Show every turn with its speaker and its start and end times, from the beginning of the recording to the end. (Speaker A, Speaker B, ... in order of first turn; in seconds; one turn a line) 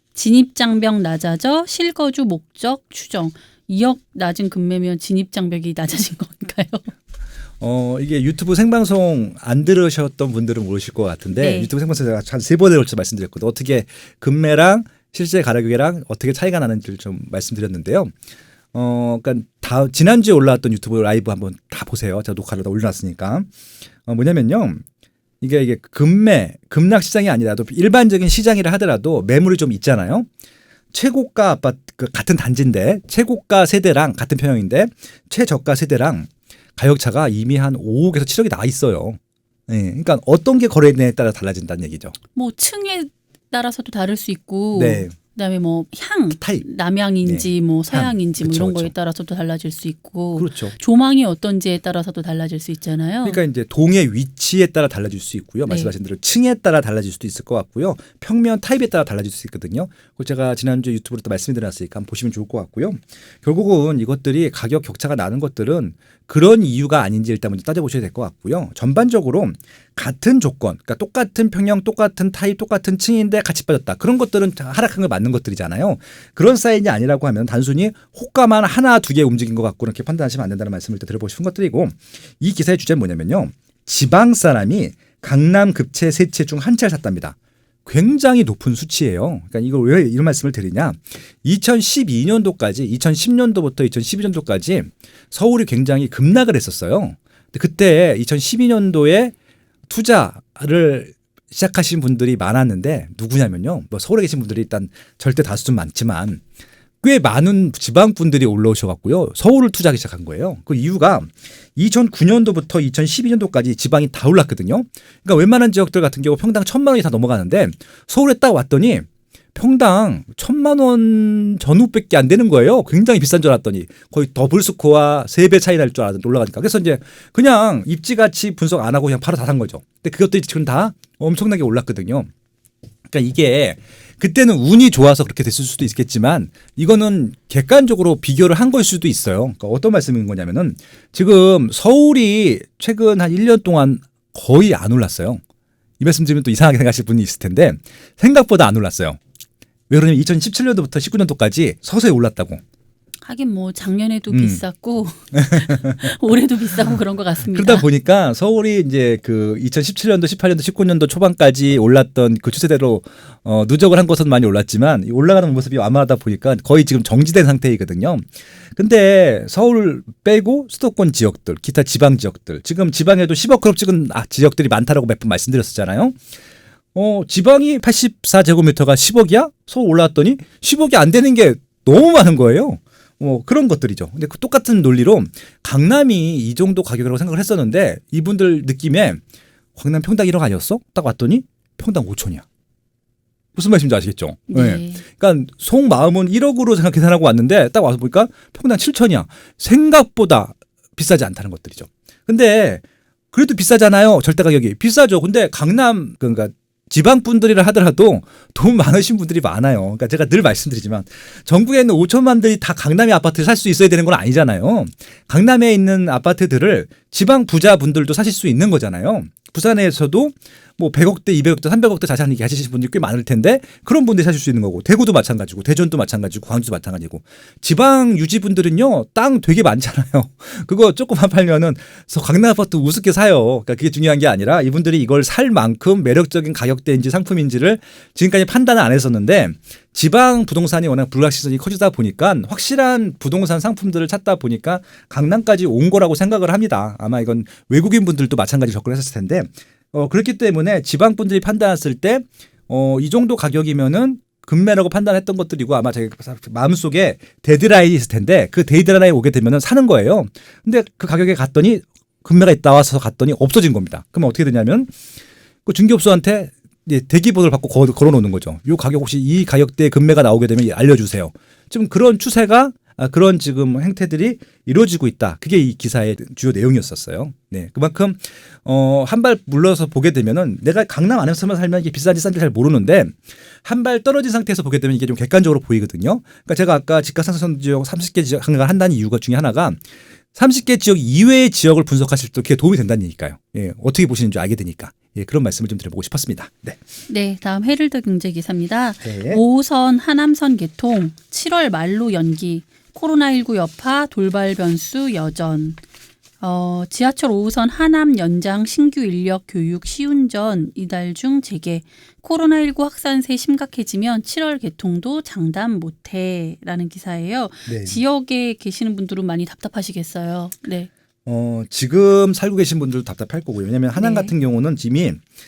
Speaker A: 0.1-6.9
Speaker B: 7.6-18.1
Speaker A: 11.3-11.7
Speaker B: 18.7-23.5
Speaker B: 24.1-24.8
Speaker B: 25.4-30.3
Speaker B: 30.9-42.1
Speaker A: 42.3-53.4
Speaker B: 44.7-45.1
Speaker B: 46.3-46.6
Speaker B: 47.2-48.9
Speaker B: 50.4-50.8
Speaker B: 53.2-99.3
Speaker A: 55.6-55.9
Speaker B: 99.9-106.4
Speaker B: 107.0-132.3
Speaker B: 133.1-145.4
Speaker B: 146.0-149.2
Speaker B: 149.9-152.6
Speaker A: 153.2-157.8
Speaker B: 154.3-154.6
Speaker B: 155.3-156.1
Speaker B: 157.4-176.2
Speaker B: 176.9-189.2
Speaker B: 189.8-192.4
Speaker B: 193.5-264.9
Speaker A: 194.5-195.0
Speaker B: 265.6-289.8
Speaker B: 290.3-296.8
Speaker A: 297.1-305.8
Speaker B: 299.0-299.4
Speaker A: 306.4-320.9
Speaker B: 317.6-318.0
Speaker B: 321.2-325.2
Speaker A: 323.9-324.3